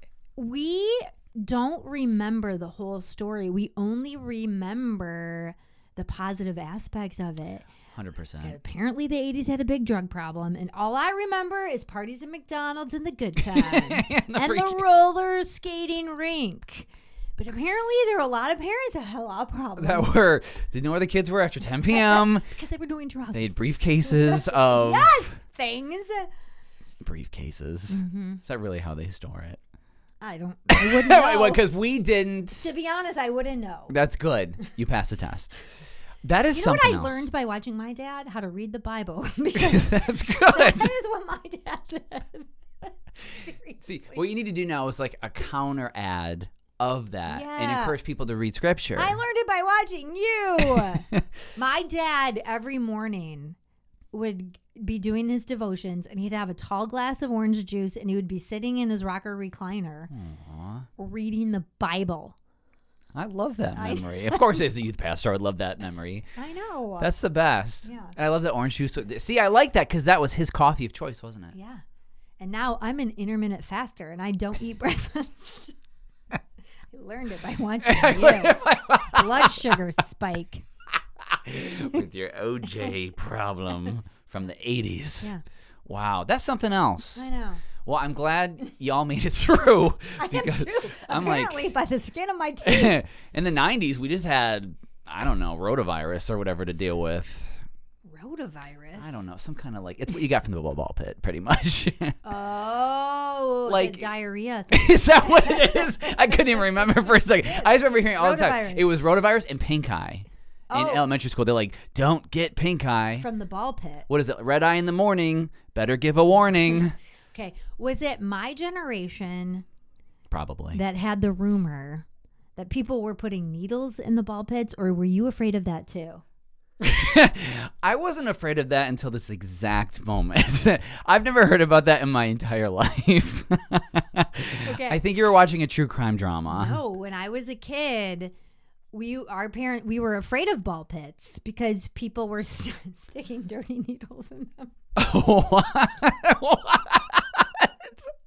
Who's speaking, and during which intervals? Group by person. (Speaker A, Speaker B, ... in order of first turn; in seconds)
Speaker A: 0.3-7.7, 8.4-20.1, 21.9-26.3, 27.9-28.4, 30.2-31.7, 32.5-33.9, 36.5-44.2, 47.3-48.0, 49.0-53.5, 54.1-60.1, 61.0-62.3, 63.7-64.6, 66.3-67.1, 67.8-68.2, 71.5-71.8, 72.4-75.7, 76.9-80.6, 87.2-87.6, 90.2-93.0, 98.0-99.2, 102.2-108.9, 110.7-111.0, 113.2-114.1, 117.3-119.6, 120.7-126.2, 134.6-135.0, 136.5-138.3, 138.9-144.7
Speaker B: 7.9-8.6, 13.4-14.8, 19.8-22.5, 23.3-25.3, 27.0-29.6, 30.7-32.7, 33.9-35.5, 36.2-37.2, 39.5-40.9, 43.8-49.2, 50.7-51.2, 60.1-60.9, 63.1-66.3, 67.0-71.5, 77.8-79.8, 81.2-85.3, 85.8-87.2, 87.8-91.7, 92.6-97.6, 99.0-102.2, 103.7-104.1, 104.7-113.3, 114.1-117.0, 120.3-120.8, 126.8-136.8, 144.9-148.1